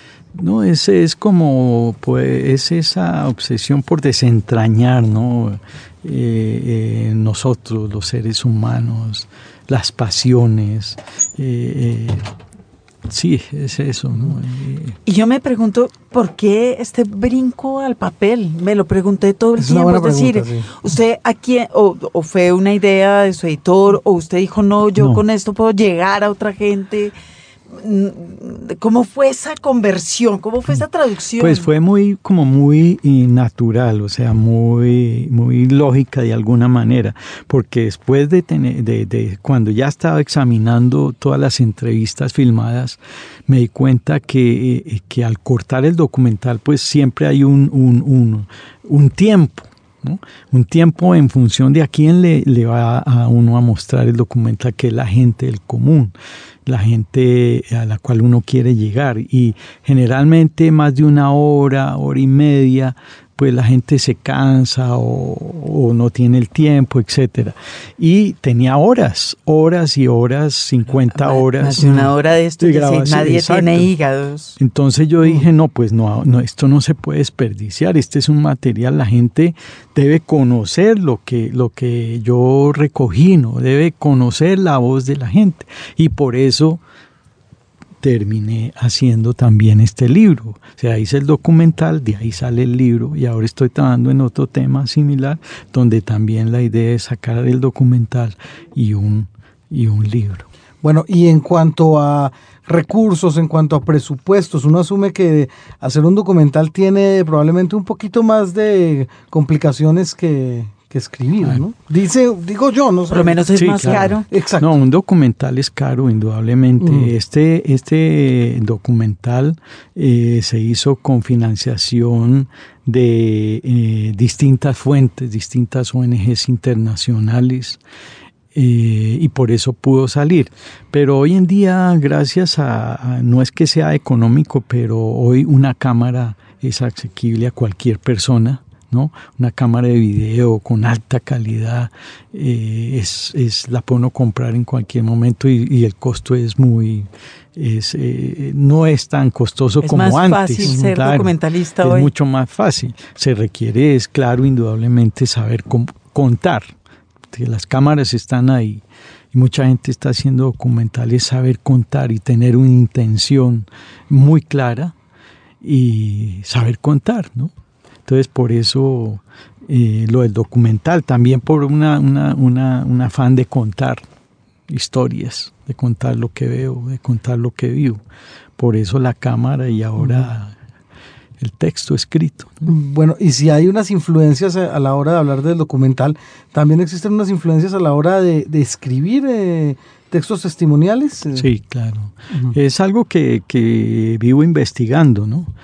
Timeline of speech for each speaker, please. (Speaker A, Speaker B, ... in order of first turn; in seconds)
Speaker A: 0.3-12.3, 13.1-15.0, 25.0-25.2, 31.4-56.1, 56.6-72.0, 72.6-73.9, 74.6-86.8, 88.0-100.5, 113.5-127.8, 128.5-156.7, 157.3-164.9, 165.6-167.5, 168.1-174.0, 174.7-178.0, 178.6-180.5, 181.4-182.7, 191.3-195.5
Speaker B: 15.1-27.1, 27.7-31.7, 71.1-74.5, 113.1-114.3, 149.8-152.1
Speaker C: 19.6-20.7, 100.8-114.8, 116.8-117.1, 180.0-180.3, 182.7-191.5